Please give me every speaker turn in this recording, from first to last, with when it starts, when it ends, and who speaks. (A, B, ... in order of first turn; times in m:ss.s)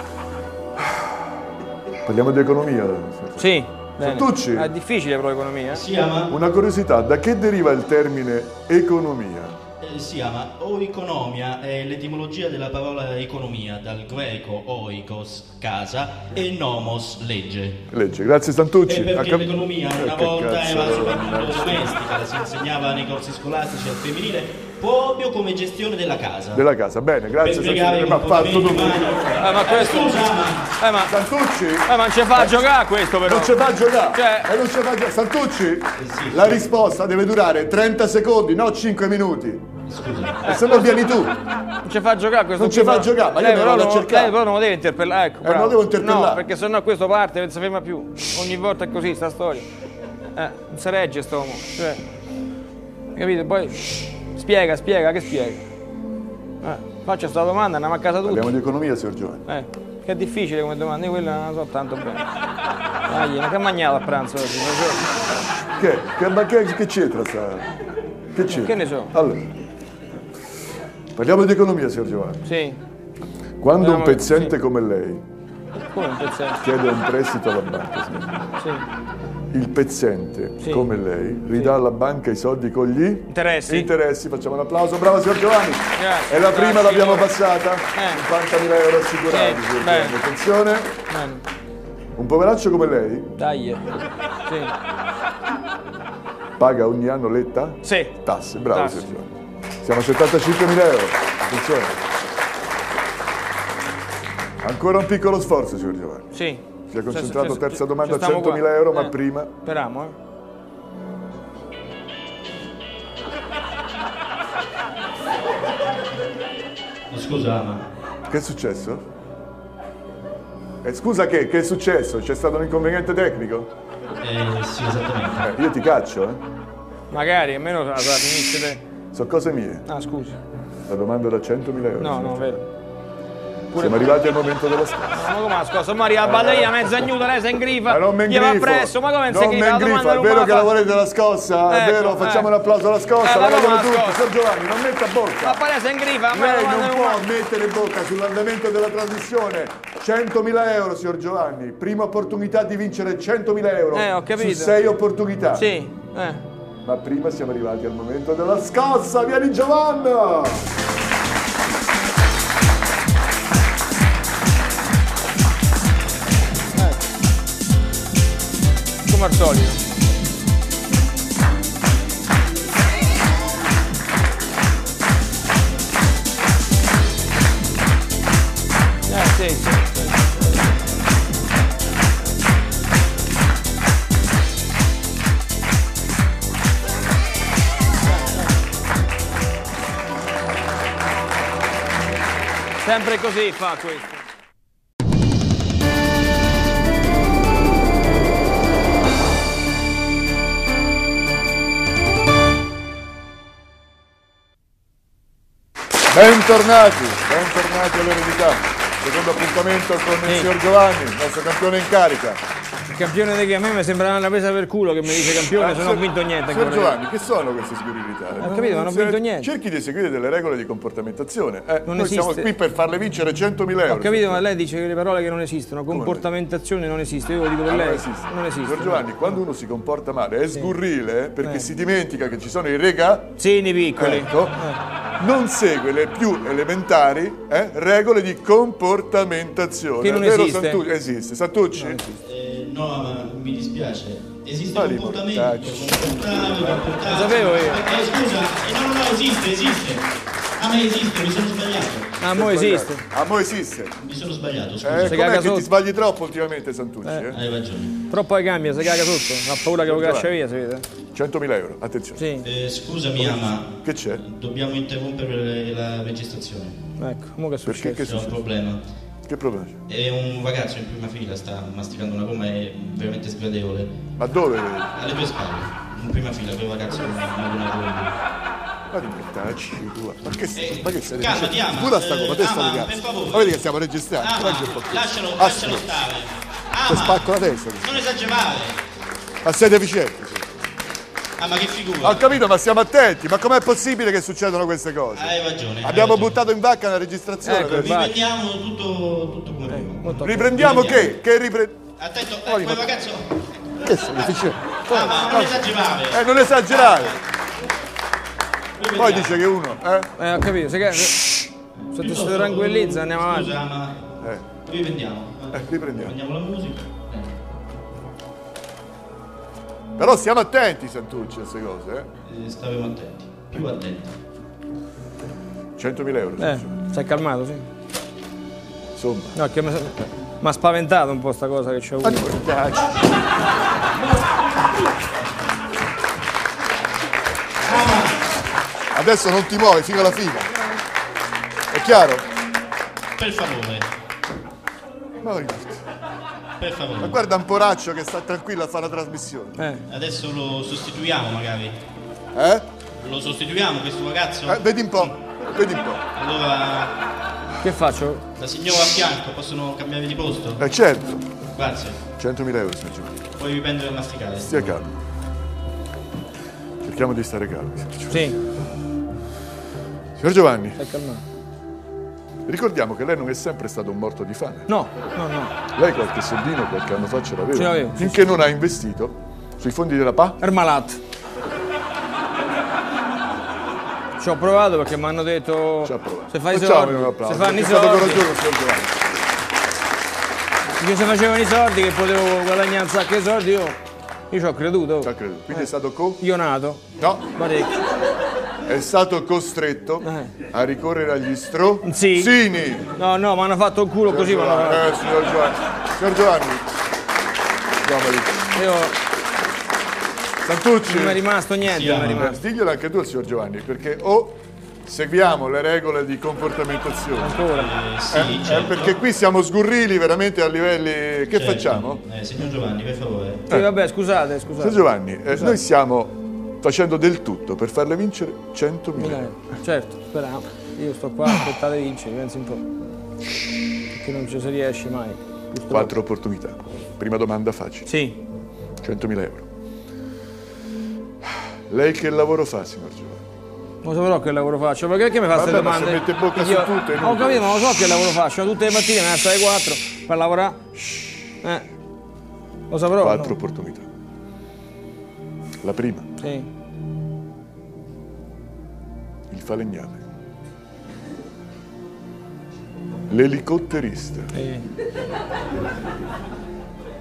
0:02.0-0:04.7 A
0:03.4-0:05.8 B
0:05.7-0:06.3 C
0:06.3-0:09.6 A
0:09.8-0:17.8 C
0:17.9-0:21.9 A
0:18.9-0:26.6 C
0:26.5-0:29.4 A
0:27.4-0:30.7 C
0:29.4-0:30.2 B
0:30.8-0:31.1 B
0:31.0-0:32.6 A
0:31.8-0:34.5 B
0:33.2-0:39.6 A
0:36.0-0:36.6 C
0:39.9-0:40.5 C
0:40.4-0:41.3 A
0:40.4-0:40.7 B
0:41.8-0:49.7 B
0:42.6-0:44.4 A
0:45.4-0:46.4 A
0:50.3-0:52.0 B
0:53.1-0:55.6 B
0:56.6-0:58.5 B
0:58.2-0:59.4 A
0:59.4-1:02.2 B
1:03.1-1:05.0 B
1:05.8-1:07.7 A
1:08.3-1:09.5 A
1:08.5-1:09.1 B
1:11.1-1:12.4 A
1:12.4-1:12.8 B
1:13.6-1:15.2 A
1:13.8-1:14.5 B
1:15.9-1:16.6 B
1:16.6-1:18.5 A
1:18.6-1:18.8 B
1:19.5-1:30.9 A
1:20.6-1:20.9 B
1:23.3-1:23.9 B
1:26.0-1:27.3 B
1:27.9-1:28.2 B
1:29.3-1:30.2 B
1:31.1-1:31.4 B
1:32.2-1:33.3 A
1:33.4-1:33.8 B
1:34.5-1:34.7 B
1:36.6-1:42.0 A
1:37.8-1:38.1 B
1:38.7-1:39.1 B
1:44.6-1:46.3 A
1:46.3-1:50.1 B
1:46.9-1:49.5 A
1:57.1-1:57.9 C
1:58.3-1:59.0 A
2:00.8-2:03.7 A
2:04.2-2:05.5 C
2:05.4-2:06.4 A
2:07.1-2:08.8 B
2:09.1-2:09.9 A
2:09.9-2:10.4 B
2:10.9-2:12.6 A
2:12.0-2:12.6 B
2:13.7-2:14.5 B
2:13.7-2:15.2 A
2:15.1-2:20.7 B
2:16.2-2:17.1 A
2:17.8-2:25.6 A
2:21.7-2:22.5 B
2:23.2-2:24.2 B
2:25.4-2:27.2 B
2:26.3-2:35.7 A
2:33.9-2:34.8 B
2:35.5-2:36.4 B
2:36.8-2:40.6 A
2:46.7-2:47.0 B
2:49.1-2:49.8 B
2:59.1-3:00.5 B
3:12.8-3:14.2 B
3:26.1-3:32.4 A
3:30.2-3:30.5 B
3:32.8-3:37.0 B
3:35.1-3:44.5 A
3:38.4-3:39.5 B
3:41.9-3:42.5 B
3:43.9-3:49.3 B
3:45.9-3:46.2 A
3:47.6-3:53.3 A
3:53.4-3:54.8 B
3:54.0-3:54.6 A
3:55.2-4:02.0 A
4:00.0-4:00.8 B
4:01.7-4:02.1 B
4:02.2-4:10.1 C
4:04.6-4:07.0 A
4:07.1-4:07.8 B
4:10.6-4:12.1 C
4:12.2-4:13.0 B
4:12.3-4:14.0 A
4:14.0-4:15.2 C
4:14.8-4:17.4 A
4:15.1-4:15.7 B
4:17.0-4:17.3 B
4:17.3-4:18.0 C
4:18.1-4:20.8 B
4:19.8-4:20.3 A
4:21.1-4:22.2 A
4:22.2-4:22.4 B
4:22.4-4:26.8 C
4:23.2-4:24.2 A
4:27.0-4:28.0 B
4:27.6-4:28.4 A
4:28.0-4:28.8 C
4:29.2-4:29.8 A
4:29.9-4:33.9 C
4:34.2-4:34.9 A
4:34.9-4:38.1 C
4:38.9-4:45.9 A
4:40.6-4:43.6 C
4:44.2-4:48.8 C
4:46.8-4:48.0 A
4:49.4-4:50.5 A
4:51.4-4:52.3 C
4:52.0-4:58.1 A
4:55.2-4:56.4 C
4:57.4-4:58.2 B
4:57.6-5:01.2 C
4:59.7-5:00.6 B
5:00.1-5:01.8 A
5:02.0-5:07.2 C
5:02.4-5:02.9 A
5:03.8-5:07.2 A
5:08.8-5:09.4 C
5:08.9-5:10.1 A
5:10.2-5:11.2 B
5:11.1-5:11.4 A
5:11.8-5:17.4 C
5:11.9-5:13.5 B
5:15.5-5:16.1 A
5:20.0-5:22.1 A
5:22.2-5:24.1 C
5:25.8-5:26.8 A
5:26.4-5:27.7 B
5:28.9-5:29.3 A
5:29.3-5:32.4 B
5:32.0-5:33.0 A
5:37.6-5:38.2 C
5:38.9-5:40.5 A
5:41.7-5:42.2 A
5:43.2-5:43.8 C
5:45.2-5:45.9 A
5:46.6-5:47.2 C
5:47.0-5:49.6 A
5:49.6-5:49.8 B
5:49.9-5:51.8 C
5:52.3-5:52.7 A
5:53.0-5:55.1 C
5:54.4-5:56.0 A
5:56.2-5:57.0 C
5:57.6-5:58.2 B
5:58.4-6:00.6 C
6:00.6-6:01.3 A
6:01.5-6:02.0 C
6:02.2-6:03.2 A
6:03.4-6:04.8 C
6:04.4-6:04.9 A
6:06.8-6:08.5 A
6:08.1-6:08.4 B
6:10.2-6:10.8 A
6:10.8-6:11.2 B
6:12.4-6:14.7 A
6:14.7-6:15.5 B
6:15.7-6:20.4 A
6:17.5-6:18.4 B
6:20.4-6:21.0 B
6:24.2-6:28.3 B
6:25.8-6:28.9 A
6:30.8-6:33.8 B
6:34.3-6:36.8 B
6:35.0-6:36.2 A
6:36.9-6:37.3 A
6:37.3-6:37.7 B
6:38.7-6:42.9 A
6:40.0-6:40.3 B
6:41.8-6:42.3 B
6:42.9-6:45.0 B
6:44.0-6:46.7 A
6:47.8-6:48.6 A
6:48.5-6:48.9 B
6:50.4-6:51.2 A
6:50.8-6:52.4 B
6:51.6-6:52.2 C
6:52.0-6:57.4 A
6:57.2-6:57.7 B
6:57.5-6:58.9 C
6:58.1-7:02.0 A
7:01.3-7:03.4 C
7:03.5-7:05.5 B
7:04.6-7:09.2 A
7:09.0-7:12.6 B
7:13.9-7:15.9 B
7:15.7-7:17.9 A
7:17.8-7:18.2 B
7:18.8-7:19.5 A
7:21.7-7:23.2 A
7:23.8-7:30.6 B
7:25.3-7:28.0 A
7:30.8-7:31.2 A
7:32.7-7:33.3 B
7:33.0-7:33.9 A
7:35.6-7:36.1 A
7:36.2-7:36.5 B
7:39.3-7:40.1 A
7:43.1-7:44.3 A
7:44.3-7:44.6 B